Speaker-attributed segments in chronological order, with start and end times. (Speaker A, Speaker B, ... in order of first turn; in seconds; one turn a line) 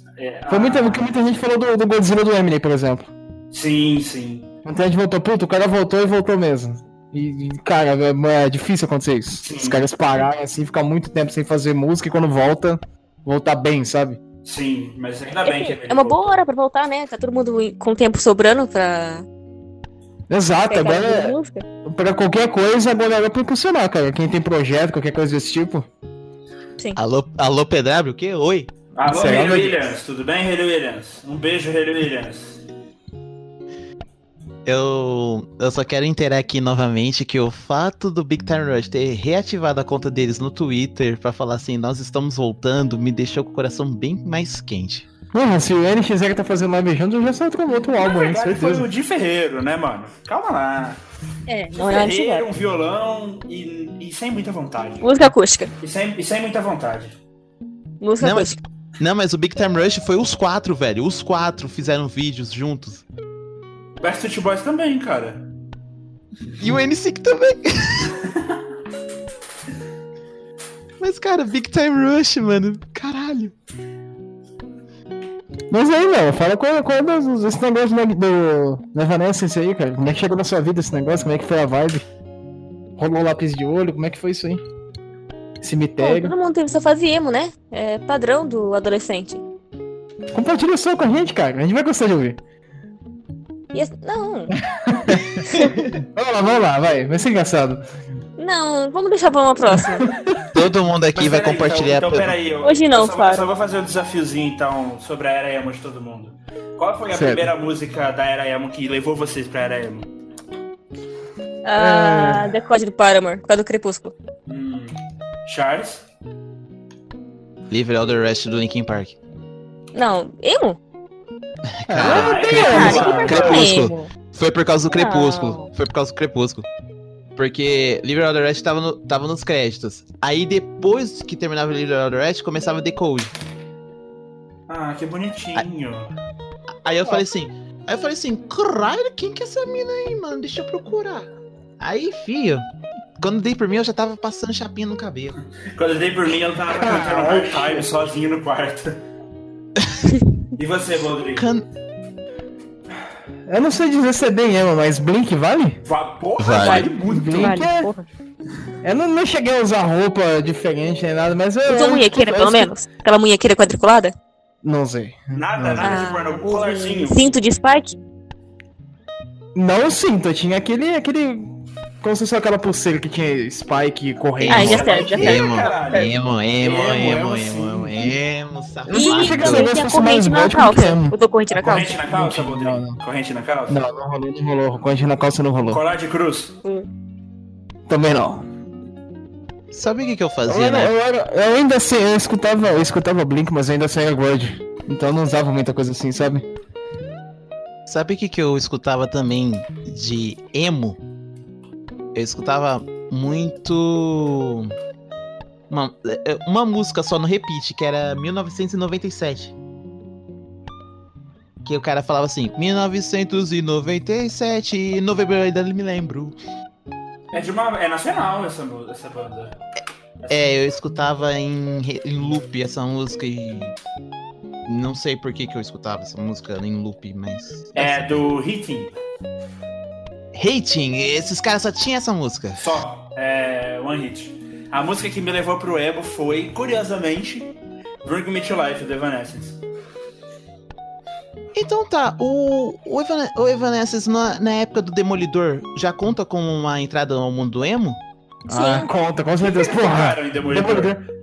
Speaker A: 0.2-1.1
Speaker B: 0.5-3.1
Speaker A: 3.5-4.5
Speaker B: 4.6-14.2
Speaker A: 9.4-9.8
Speaker A: 14.4-16.4
Speaker C: 15.4-19.2
Speaker B: 20.3-25.9
Speaker C: 20.7-21.6
Speaker D: 26.9-28.7
Speaker A: 28.9-32.6
Speaker B: 29.0-29.8
Speaker D: 34.6-45.1
Speaker B: 45.3-48.9
Speaker A: 48.0-51.0
Speaker C: 51.5-52.5
Speaker A: 51.7-55.1
Speaker C: 55.0-55.7
Speaker A: 55.8-57.2
Speaker C: 58.0-58.6
Speaker D: 58.2-63.0
Speaker A: 64.0-65.5
Speaker D: 66.6-68.2
Speaker D: 71.0-73.5
Speaker B: 75.7-82.0
Speaker B: 83.0-84.6
Speaker B: 85.6-86.3
Speaker C: 86.0-89.4
Speaker B: 90.3-92.4
Speaker C: 93.7-94.5
Speaker B: 94.5-97.8
Speaker D: 95.4-96.0
Speaker C: 98.4-100.0
Speaker B: 99.7-100.4
Speaker D: 100.5-102.3
Speaker A: 101.1-110.1
Speaker C: 102.6-103.5
Speaker B: 107.1-107.5
Speaker C: 111.6-114.1
Speaker B: 111.8-112.6
Speaker A: 114.5-114.9
Speaker A: 115.5-116.0
Speaker D: 117.7-119.2
Speaker C: 119.9-120.8
Speaker D: 121.8-126.7
Speaker B: 121.9-123.5
Speaker A: 122.0-123.7
Speaker C: 122.4-124.1
Speaker C: 124.9-125.7
Speaker D: 127.3-133.3
Speaker A: 134.7-136.1
Speaker D: 136.8-141.3
Speaker D: 141.8-142.6
Speaker D: 143.2-145.3
Speaker A: 145.7-149.0
Speaker B: 146.7-147.9
Speaker A: 150.6-151.4
Speaker D: 151.3-151.6
Speaker B: 153.4-155.8
Speaker A: 155.8-157.6
Speaker D: 156.4-156.9
Speaker C: 156.6-158.1
Speaker B: 157.1-157.9
Speaker B: 158.8-162.7
Speaker C: 161.7-164.1
Speaker B: 164.6-166.1
Speaker A: 165.3-167.3
Speaker C: 165.8-167.9
Speaker B: 169.5-175.3
Speaker D: 174.4-179.7
Speaker C: 174.5-175.6
Speaker A: 174.6-178.1
Speaker B: 178.9-183.0
Speaker C: 178.9-181.9
Speaker A: 181.6-183.8
Speaker B: 183.7-185.8
Speaker A: 185.7-186.6
Speaker B: 187.9-188.5
Speaker D: 189.7-190.9
Speaker B: 190.5-196.5
Speaker D: 197.8-201.0
Speaker D: 202.1-204.7
Speaker D: 205.7-209.5
Speaker D: 211.6-216.3
Speaker A: 217.3-219.5
Speaker A: 220.2-220.5
Speaker D: 220.3-223.7
Speaker D: 224.7-228.0
Speaker A: 227.7-228.9
Speaker D: 230.3-232.6
Speaker A: 232.6-239.6
Speaker D: 241.5-248.0
Speaker C: 248.5-248.9
Speaker B: 248.5-251.0
Speaker A: 249.4-251.0